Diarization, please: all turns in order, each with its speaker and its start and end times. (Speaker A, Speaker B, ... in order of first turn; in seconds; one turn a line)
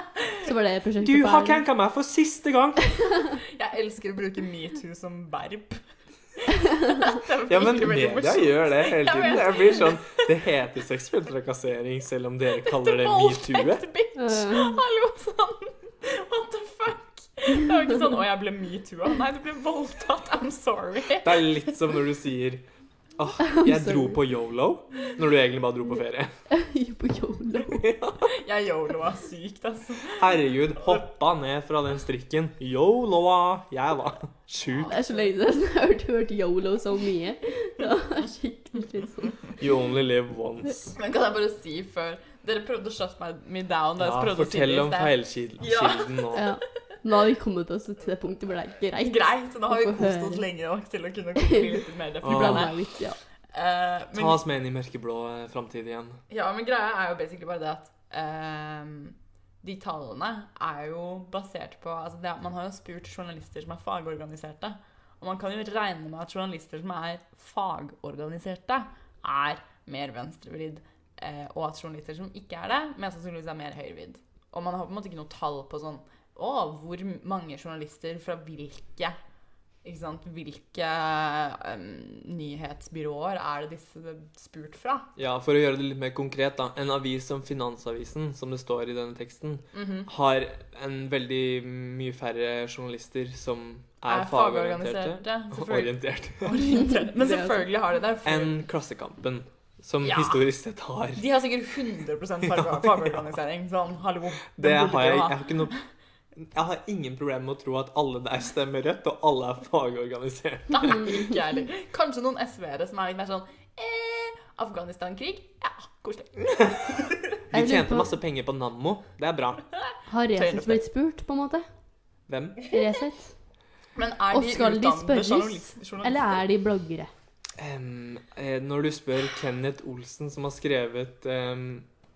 Speaker A: 0.4-1.6
Speaker B: 1.0-3.0
Speaker C: 3.4-5.8
Speaker C: 6.9-10.0
Speaker B: 7.5-13.8
Speaker C: 12.6-21.5
Speaker A: 14.2-14.8
Speaker B: 21.2-22.6
Speaker B: 23.2-26.3
Speaker A: 23.6-24.2
Speaker A: 26.5-27.8
Speaker B: 27.7-28.2
Speaker C: 28.3-30.4
Speaker B: 30.2-34.9
Speaker C: 34.6-35.3
Speaker A: 34.9-39.5
Speaker B: 39.6-41.0
Speaker C: 41.0-46.5
Speaker B: 44.0-46.5
Speaker A: 46.4-50.5
Speaker C: 49.0-52.9
Speaker A: 51.4-51.7
Speaker B: 52.2-52.8
Speaker A: 52.2-53.2
Speaker C: 53.5-54.4
Speaker B: 54.1-56.2
Speaker C: 56.3-79.2
Speaker C: 79.8-85.1
Speaker B: 85.2-96.7
Speaker C: 89.7-90.1
Speaker C: 94.1-98.6
Speaker A: 97.0-97.6
Speaker B: 98.2-101.2
Speaker C: 100.0-100.4
Speaker C: 101.2-105.8
Speaker B: 102.5-103.1
Speaker B: 104.6-105.8
Speaker B: 106.4-111.1
Speaker C: 110.7-117.2
Speaker A: 110.8-111.6
Speaker B: 117.5-119.7
Speaker A: 117.5-118.1
Speaker A: 120.1-121.7
Speaker C: 120.3-120.8
Speaker B: 122.3-122.7
Speaker A: 122.7-123.3
Speaker C: 124.0-126.4
Speaker A: 124.3-127.1
Speaker B: 127.6-131.9